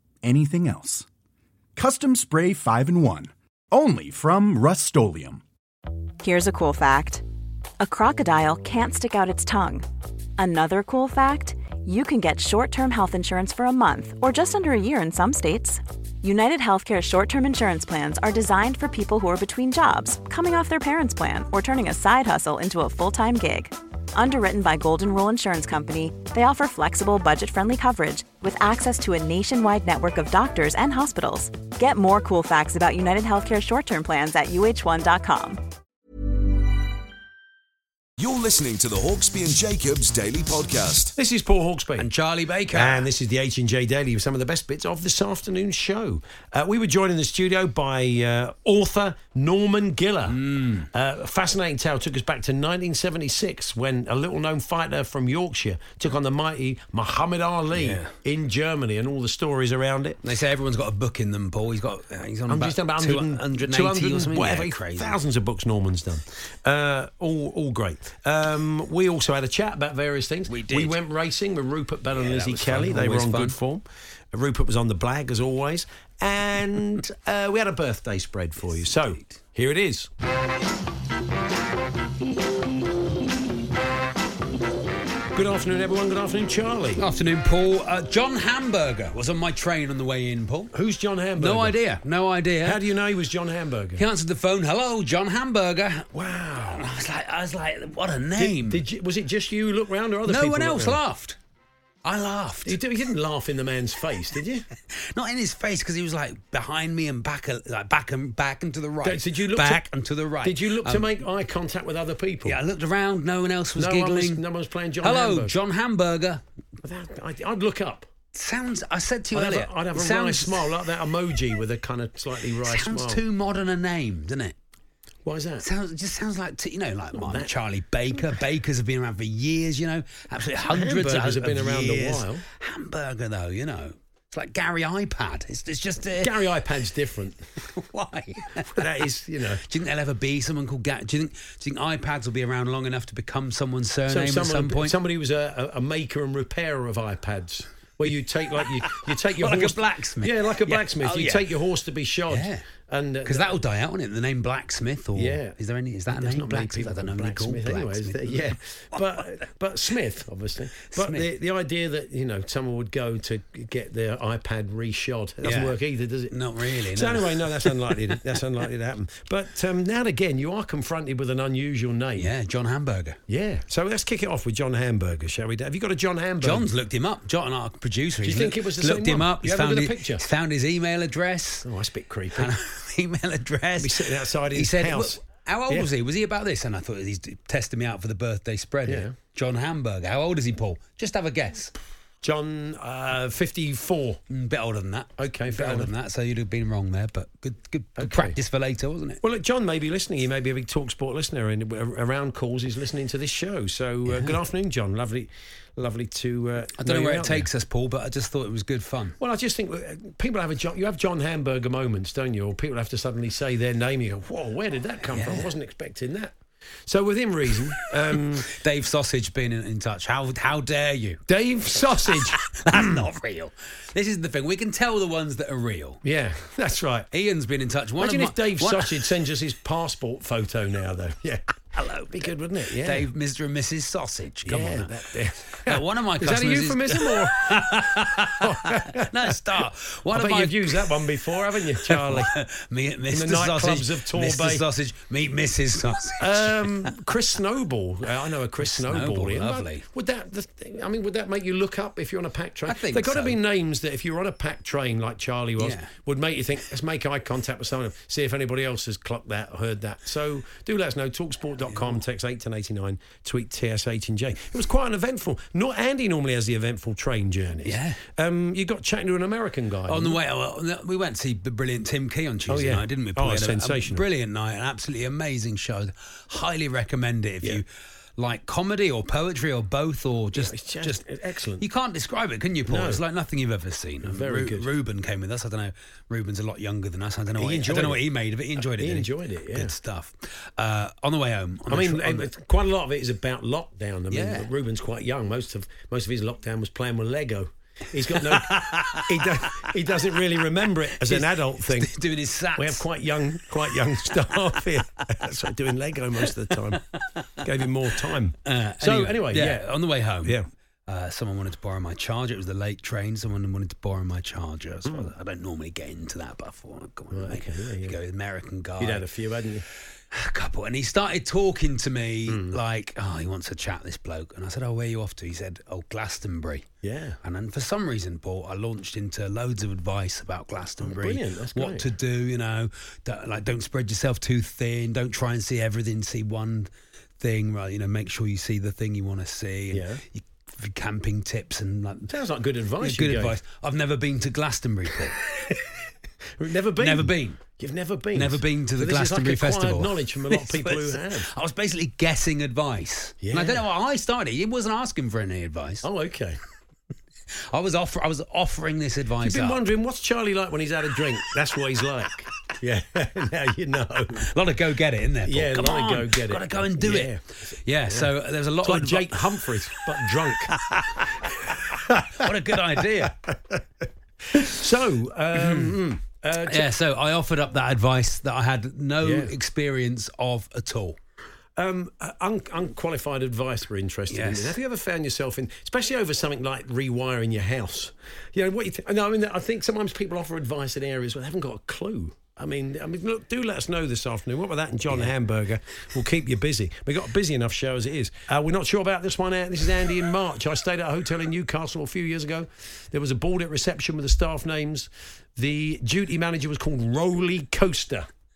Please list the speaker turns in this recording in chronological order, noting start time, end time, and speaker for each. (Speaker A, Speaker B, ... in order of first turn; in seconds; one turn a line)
Speaker A: 0.2-1.1
Speaker A: 1.8-5.4
Speaker B: 6.2-7.2
Speaker B: 7.8-9.8
Speaker B: 10.4-35.6
Speaker C: 38.2-41.1
Speaker D: 41.2-42.1
Speaker E: 42.0-43.1
Speaker D: 42.7-50.4
Speaker E: 50.3-50.9
Speaker D: 50.9-60.2
Speaker E: 57.7-58.1
Speaker E: 60.2-65.2
Speaker D: 62.5-80.1
Speaker E: 70.5-71.0
Speaker E: 72.1-73.6
Speaker E: 78.8-79.2
Speaker D: 85.3-87.0
Speaker E: 87.0-90.7
Speaker D: 90.7-91.8
Speaker E: 91.4-92.8
Speaker D: 92.6-94.0
Speaker E: 94.0-96.1
Speaker D: 96.1-96.8
Speaker E: 96.6-98.8
Speaker D: 98.4-101.0
Speaker E: 100.2-101.3
Speaker E: 102.0-102.8
Speaker D: 102.7-104.7
Speaker E: 105.0-111.2
Speaker D: 109.0-109.9
Speaker D: 110.4-112.6
Speaker E: 112.4-114.4
Speaker D: 113.8-115.5
Speaker E: 115.0-116.4
Speaker D: 116.8-118.1
Speaker E: 118.3-120.8
Speaker D: 119.3-123.2
Speaker E: 122.6-124.5
Speaker D: 125.2-125.7
Speaker E: 125.6-136.6
Speaker D: 127.1-127.5
Speaker D: 130.6-132.4
Speaker D: 136.2-137.4
Speaker E: 137.6-138.8
Speaker D: 138.7-139.6
Speaker E: 139.6-145.0
Speaker D: 144.1-153.5
Speaker E: 149.3-151.4
Speaker E: 152.3-152.6
Speaker E: 153.2-159.2
Speaker D: 155.1-155.6
Speaker D: 156.1-166.4
Speaker E: 160.9-161.3
Speaker E: 165.4-165.8
Speaker E: 166.3-168.2
Speaker D: 166.9-172.3
Speaker E: 172.2-173.2
Speaker D: 173.3-176.7
Speaker E: 176.4-181.7
Speaker D: 178.2-180.2
Speaker D: 181.6-182.5
Speaker E: 182.3-191.7
Speaker D: 183.8-185.9
Speaker D: 188.8-189.1
Speaker D: 192.2-194.2
Speaker E: 194.3-199.2
Speaker D: 195.2-195.9
Speaker D: 198.0-198.3
Speaker D: 199.2-207.5
Speaker E: 204.0-204.4
Speaker E: 206.8-209.2
Speaker D: 209.2-216.3
Speaker E: 215.0-215.5
Speaker D: 216.8-218.5
Speaker E: 218.1-221.2
Speaker D: 221.3-223.1
Speaker E: 222.1-226.0
Speaker D: 226.0-227.1
Speaker E: 227.1-229.2
Speaker D: 228.0-231.4
Speaker E: 231.8-241.2
Speaker D: 232.1-233.1
Speaker D: 234.5-239.1
Speaker D: 240.1-242.3
Speaker E: 241.8-246.9
Speaker D: 243.1-244.6
Speaker D: 246.2-270.2
Speaker E: 248.6-249.8
Speaker E: 252.7-253.4
Speaker E: 255.6-255.9
Speaker E: 261.7-262.0
Speaker E: 267.6-268.0
Speaker E: 269.9-277.7
Speaker D: 272.5-274.0
Speaker E: 278.2-281.0
Speaker D: 280.4-281.6
Speaker E: 281.6-292.3
Speaker D: 282.7-283.0
Speaker D: 284.0-284.7
Speaker D: 287.4-288.0
Speaker D: 288.6-289.8
Speaker D: 291.7-301.9
Speaker E: 294.1-294.5
Speaker E: 298.2-299.7
Speaker E: 301.0-302.8
Speaker D: 302.6-306.8
Speaker D: 307.4-309.6
Speaker E: 308.4-319.1
Speaker D: 317.1-318.0
Speaker D: 318.8-319.6
Speaker E: 320.1-326.7
Speaker D: 322.3-322.6
Speaker D: 326.8-327.2
Speaker E: 327.2-342.2
Speaker D: 330.8-331.9
Speaker D: 339.7-340.0
Speaker D: 342.1-343.4
Speaker E: 342.8-345.2
Speaker D: 346.4-351.3
Speaker E: 346.8-347.4
Speaker E: 348.1-355.9
Speaker D: 353.2-353.6
Speaker D: 355.8-356.4
Speaker E: 357.5-359.6
Speaker D: 359.2-364.3
Speaker E: 364.3-369.5
Speaker D: 365.2-368.1
Speaker D: 368.6-370.6
Speaker E: 370.5-371.0
Speaker D: 371.5-372.3
Speaker E: 372.2-373.1
Speaker D: 372.8-373.6
Speaker D: 374.3-376.7
Speaker E: 375.4-375.8
Speaker E: 376.5-381.0
Speaker D: 379.0-379.3
Speaker D: 381.6-408.1
Speaker E: 384.1-384.6